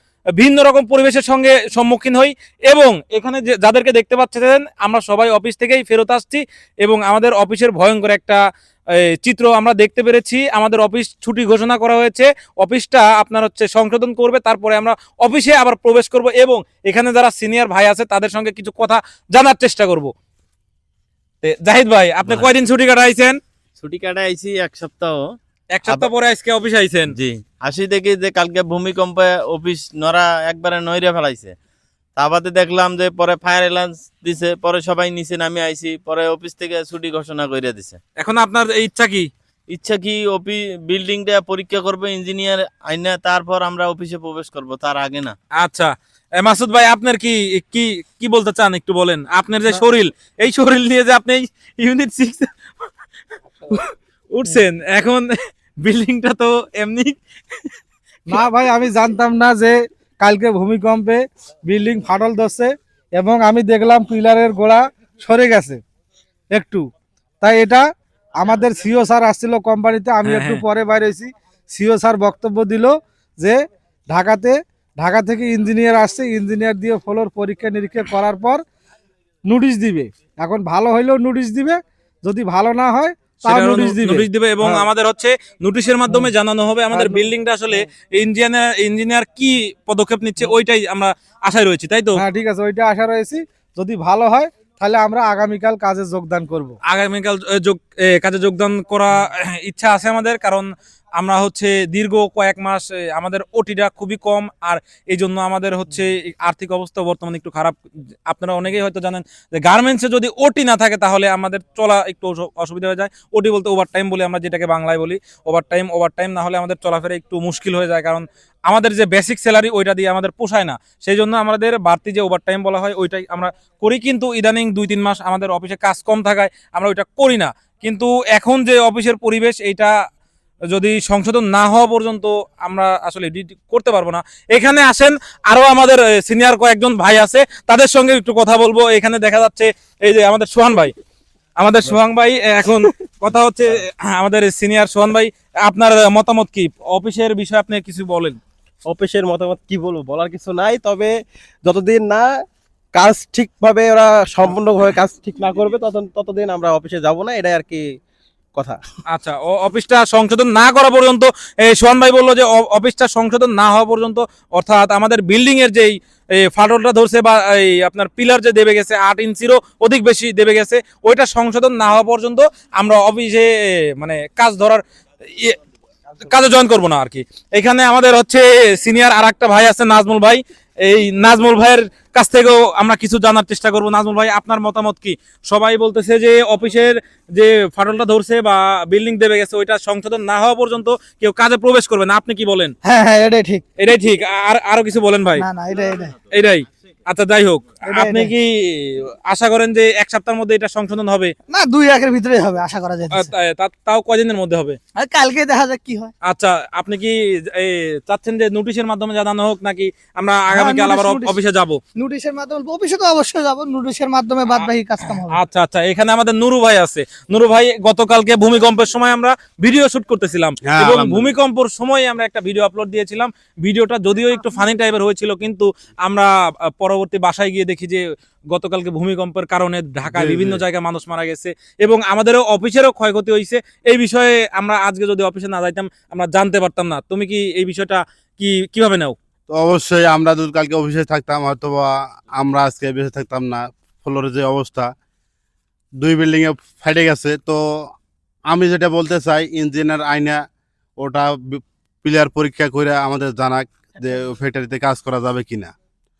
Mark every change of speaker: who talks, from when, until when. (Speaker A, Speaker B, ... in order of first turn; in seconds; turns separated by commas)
Speaker A: 0.4-8.4, Speaker A: 9.0-20.1, Speaker A: 21.4-23.4, Speaker B: 22.2-22.5, Speaker B: 23.8-25.4, Speaker A: 25.7-27.1, Speaker B: 27.1-31.5, Speaker B: 32.2-38.0, Speaker A: 38.2-39.3, Speaker B: 39.7-45.4, Speaker A: 45.6-52.7, Speaker A: 53.7-57.1, Speaker C: 58.3-65.8, Speaker C: 66.5-66.8, Speaker C: 67.4-67.8, Speaker C: 68.4-73.6, Speaker A: 70.2-70.6, Speaker C: 74.1-78.6, Speaker C: 79.5-84.8, Speaker A: 83.4-92.2, Speaker C: 86.9-87.3, Speaker C: 92.2-96.8, Speaker A: 96.8-107.8, Speaker A: 108.3-129.9, Speaker A: 130.7-140.9, Speaker A: 141.6-148.4, Speaker D: 148.8-151.1, Speaker D: 151.6-152.3, Speaker D: 152.9-157.9, Speaker A: 159.1-175.6, Speaker A: 176.2-192.7, Speaker E: 192.8-193.6, Speaker A: 193.8-195.5, Speaker E: 195.4-196.1, Speaker A: 196.3-201.3, Speaker E: 197.8-198.3, Speaker E: 201.5-203.3, Speaker A: 203.1-204.8, Speaker E: 204.9-206.1, Speaker A: 206.2-211.8, Speaker E: 210.5-211.4, Speaker E: 211.9-215.4, Speaker A: 214.5-239.1, Speaker F: 220.7-221.3, Speaker F: 230.1-230.6, Speaker F: 239.5-244.9, Speaker F: 246.0-247.9, Speaker F: 248.5-250.4, Speaker F: 251.0-255.7